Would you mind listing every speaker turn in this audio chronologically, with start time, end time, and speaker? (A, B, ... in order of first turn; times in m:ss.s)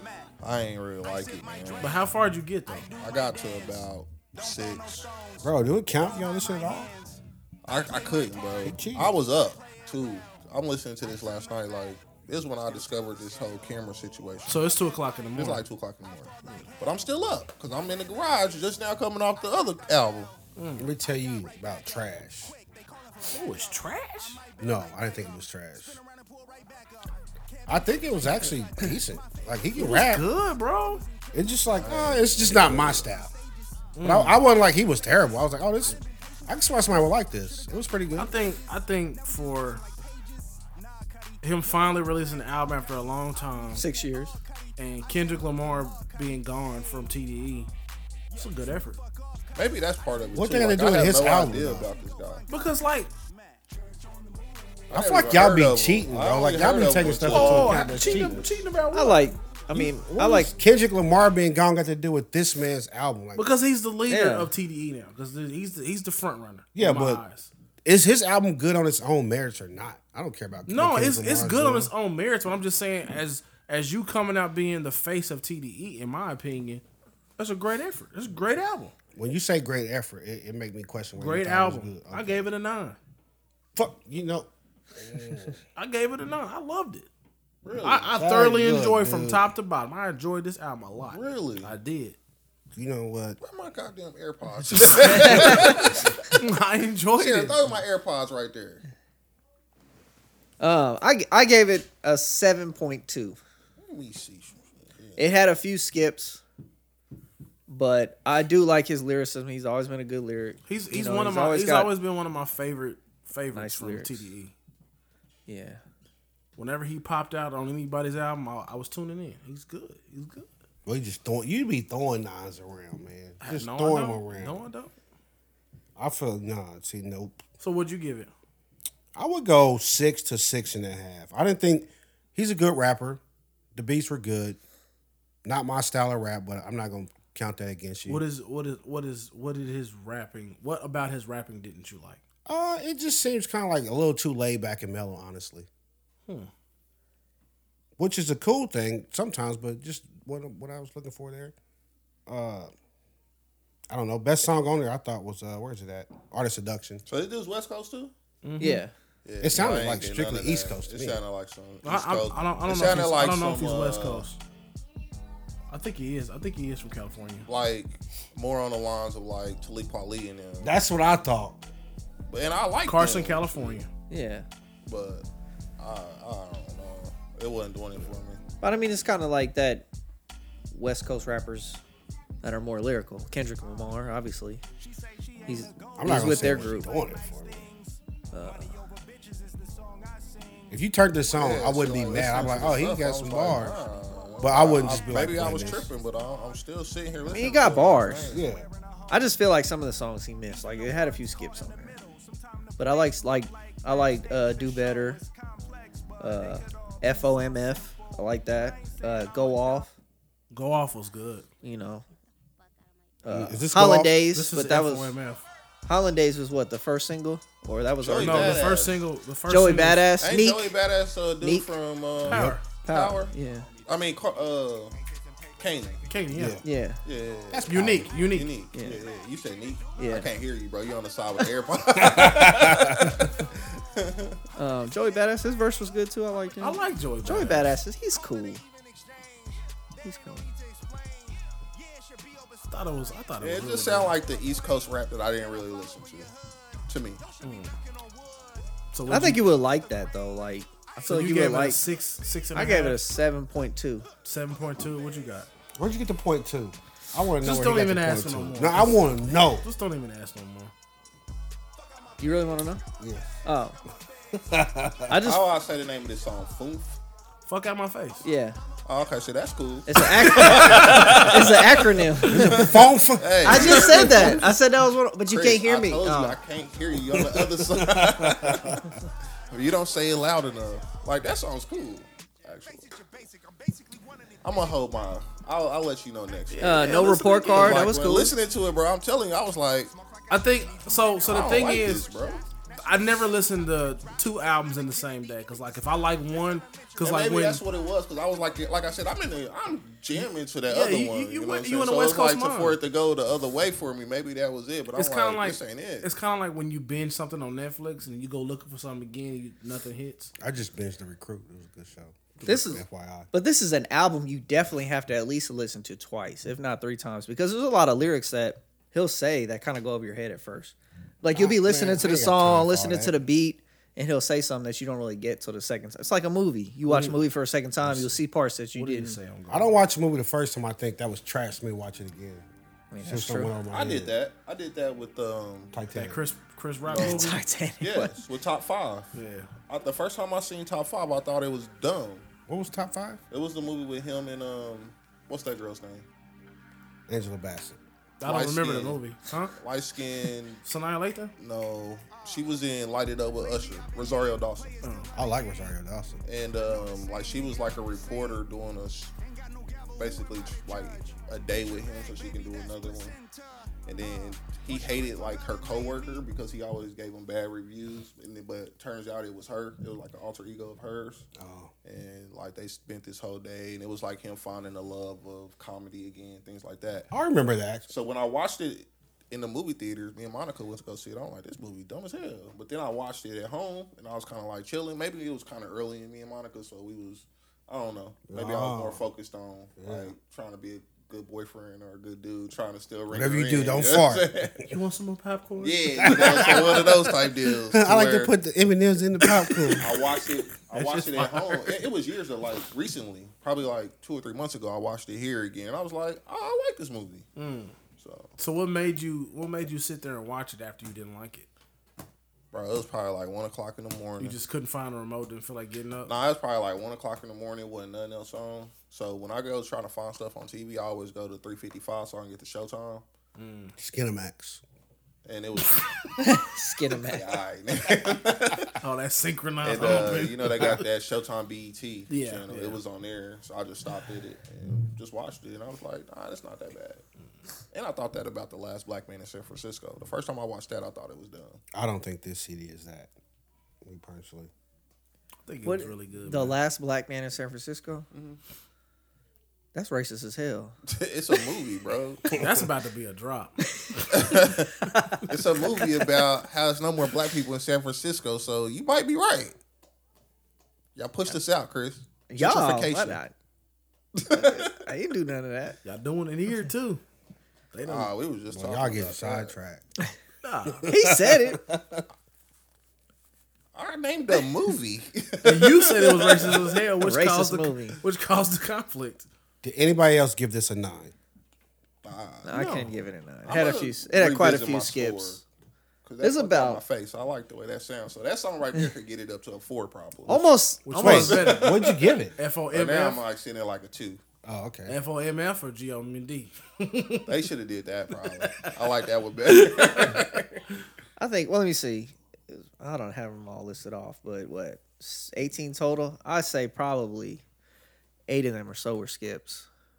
0:00.4-0:02.0 A
0:01.8-0:02.9 B
0:03.0-0:05.1 A
0:05.4-0:06.9 C
0:07.7-0:14.6 A
0:08.6-0:09.2 C
0:14.5-0:15.6 B
0:15.4-0:20.3 A
0:20.6-0:20.9 B
0:20.8-0:22.6 C
0:23.3-0:24.4 B
0:24.6-0:26.0 C
0:27.7-0:30.2 C
0:29.8-0:31.0 B
0:31.3-0:33.3 C
0:31.7-0:33.1 A
0:34.0-0:34.4 B
0:34.0-0:38.3 C
0:38.2-0:39.8 B
0:41.4-0:43.8 B
0:43.8-0:44.4 D
0:44.8-0:47.7 B
0:48.3-0:49.0 B
0:49.6-0:52.4 A
0:50.3-0:51.9 C
0:52.5-0:53.1 B
0:54.9-0:58.3 A
0:54.9-0:58.5 C
0:57.2-0:59.3 B
0:58.9-1:00.5 D
0:59.7-1:03.5 C
1:03.4-1:07.5 B
1:04.1-1:04.5 D
1:06.8-1:07.2 C
1:07.8-1:11.9 C
1:10.7-1:16.8 B
1:17.4-1:18.9 B
1:19.2-1:22.5 C
1:21.2-1:23.0 B
1:23.8-1:25.6 C
1:25.8-1:27.1 B
1:27.6-1:28.1 A
1:27.8-1:32.2 B
1:28.2-1:29.5 C
1:31.1-1:31.7 A
1:32.7-1:33.4 C
1:33.4-1:36.3 A
1:34.7-1:37.6 B
1:35.0-1:35.9 D
1:37.2-1:38.8 A
1:40.6-1:43.4 D
1:43.8-1:45.3 A
1:45.2-1:46.4 D
1:47.7-1:51.9 D
1:50.7-1:54.5 B
1:53.5-1:54.3 D
1:55.5-1:55.8 D
1:56.6-2:00.5 B
2:00.9-2:04.6 C
2:03.4-2:04.9 B
2:06.0-2:07.4 C
2:07.6-2:08.3 B
2:09.2-2:13.2 C
2:13.8-2:14.6 C
2:15.4-2:18.2 C
2:18.1-2:22.2 B
2:22.5-2:25.7 C
2:28.0-2:31.6 C
2:32.3-2:32.7 C
2:33.9-2:37.0 C
2:37.0-2:38.1 A
2:38.4-2:38.8 B
2:38.6-2:38.9 D
2:39.2-2:44.3 A
2:39.4-2:41.2 C
2:41.8-2:44.4 B
2:45.7-2:47.5 B
2:47.5-2:50.8 A
2:50.6-2:51.6 C
2:52.3-2:53.8 A
2:52.8-2:53.9 B
2:54.1-2:54.5 D
2:54.9-2:55.3 A
2:55.8-2:58.4 A
2:58.6-2:59.9 D
3:00.7-3:01.8 D
3:02.4-3:04.6 D
3:05.4-3:06.9 D
3:06.0-3:07.7 C
3:08.3-3:08.9 D
3:10.7-3:13.8 C
3:11.4-3:18.5 A
3:14.4-3:15.9 C
3:17.3-3:18.4 D
3:18.3-3:18.7 C
3:19.1-3:22.0 D
3:22.8-3:25.2 D
3:26.2-3:29.9 D
3:30.5-3:31.5 B
3:31.6-3:32.0 D
3:33.2-3:35.1 D
3:33.3-3:34.2 C
3:34.3-3:35.4 B
3:35.9-3:38.7 D
3:38.0-3:39.0 A
3:38.2-3:40.1 B
3:39.5-3:40.7 D
3:40.2-3:43.3 A
3:41.4-3:41.7 D
3:42.3-3:42.6 B
3:42.3-3:42.6 C
3:42.8-3:43.7 D
3:43.8-3:45.0 A
3:45.6-3:46.0 A
3:46.1-3:46.6 B
3:46.3-3:46.6 C
3:46.6-3:47.0 D
3:47.0-3:54.4 A
3:47.5-3:48.1 C
3:47.6-3:48.5 B
3:48.7-3:49.0 D
3:50.0-3:50.3 D
3:52.0-3:53.2 C
3:54.6-3:58.6 D
3:56.6-3:57.8 B
4:00.0-4:00.5 D
4:02.6-4:04.1 B
4:03.4-4:06.3 A
4:06.9-4:07.2 A
4:07.4-4:07.8 B
4:08.9-4:09.4 B
4:09.1-4:11.8 D
4:11.0-4:13.0 B
4:12.5-4:14.1 D
4:14.2-4:15.5 B
4:15.8-4:19.7 C
4:17.4-4:20.7 B
4:22.2-4:22.8 D
4:23.0-4:23.3 C
4:23.4-4:23.8 D
4:24.3-4:25.2 C
4:25.1-4:25.4 D
4:25.1-4:27.0 A
4:27.5-4:28.2 B
4:28.2-4:28.6 D
4:28.9-4:34.6 A
4:29.9-4:32.7 D
4:30.9-4:31.2 B
4:32.2-4:34.4 C
4:33.4-4:36.4 D
4:33.6-4:34.0 B
4:35.3-4:38.8 A
4:37.1-4:38.9 C
4:39.5-4:43.0 A
4:44.4-4:46.8 A
4:46.5-4:47.9 B
4:46.6-4:48.4 D
4:47.5-4:50.0 A
4:50.3-4:52.1 B
4:51.2-4:52.4 A
4:52.8-4:57.6 B
4:57.0-5:06.1 A
5:00.7-5:02.8 B
5:04.9-5:10.3 B
5:10.4-5:13.3 C
5:12.4-5:12.8 D
5:13.3-5:29.2 D
5:21.3-5:23.1 C
5:26.9-5:27.2 B
5:27.8-5:28.2 C
5:28.8-5:29.8 B
5:29.5-5:32.5 C
5:32.9-5:33.5 D
5:33.0-5:34.1 C
5:33.7-5:35.7 A
5:35.7-5:36.2 C
5:35.9-5:37.4 B
5:36.8-5:39.1 A
5:37.0-5:38.2 D
5:39.2-5:39.5 B
5:39.7-5:42.3 A
5:42.5-5:43.2 C
5:43.3-5:46.1 A
5:47.1-5:47.8 C
5:48.2-5:49.5 B
5:48.2-5:49.0 A
5:49.6-5:50.6 A
5:50.6-5:51.3 B
5:51.4-5:54.8 A
5:54.8-5:55.1 B
5:55.1-5:56.2 C
5:56.2-5:59.1 A
6:00.0-6:03.2 A
6:03.9-6:11.3 A
6:11.4-6:11.7 C
6:11.8-6:17.1 A
6:17.1-6:17.9 C
6:17.9-6:34.7 A
6:28.3-6:29.0 C
6:29.8-6:30.1 C
6:33.1-6:34.3 C
6:34.7-6:37.0 B
6:35.6-6:38.3 A
6:36.0-6:36.7 C
6:37.7-6:39.9 C
6:39.2-6:40.0 B
6:39.8-6:47.3 A
6:40.7-6:41.8 B
6:47.4-6:47.7 B
6:48.0-6:48.3 A
6:48.4-6:51.5 B
6:52.5-6:54.4 A
6:54.2-6:56.1 B
6:56.1-7:03.0 A
7:03.4-7:03.7 B
7:03.8-7:04.6 C
7:05.2-7:06.2 A
7:06.2-7:07.3 D
7:06.9-7:08.8 A
7:08.8-7:10.8 B
7:09.6-7:17.0 A
7:12.1-7:12.8 B
7:17.7-7:21.6 A
7:21.7-7:23.1 C
7:23.8-7:24.5 C
7:25.4-7:26.6 B
7:25.6-7:28.1 D
7:28.1-7:28.4 A
7:29.7-7:30.8 D
7:30.9-7:32.3 A
7:32.3-7:32.6 C
7:32.3-7:34.3 B
7:34.1-7:39.6 A
7:34.9-7:35.2 D
7:41.0-7:43.2 A
7:42.3-7:43.3 D
7:44.1-7:44.8 A
7:44.3-7:45.8 D
7:45.8-7:47.0 B
7:47.7-7:48.1 B
7:47.8-7:49.6 A
7:48.5-7:49.8 C
7:50.4-7:50.9 B
7:50.7-7:52.0 C
7:50.9-7:51.6 D
7:53.7-7:56.8 A
7:55.4-7:59.3 B
7:57.0-7:58.0 D
7:59.6-8:01.1 C
8:02.0-8:02.6 A
8:02.4-8:05.4 D
8:02.5-8:02.9 B
8:03.4-8:05.4 A
8:06.0-8:10.5 A
8:06.2-8:06.8 D
8:10.3-8:11.4 D
8:10.9-8:13.2 B
8:11.0-8:12.4 C
8:11.0-8:11.9 A
8:12.7-8:14.2 A
8:14.4-8:15.0 C
8:14.9-8:17.4 B
8:17.3-8:20.6 A
8:18.2-8:20.4 B
8:21.2-8:27.4 D
8:28.3-8:29.7 D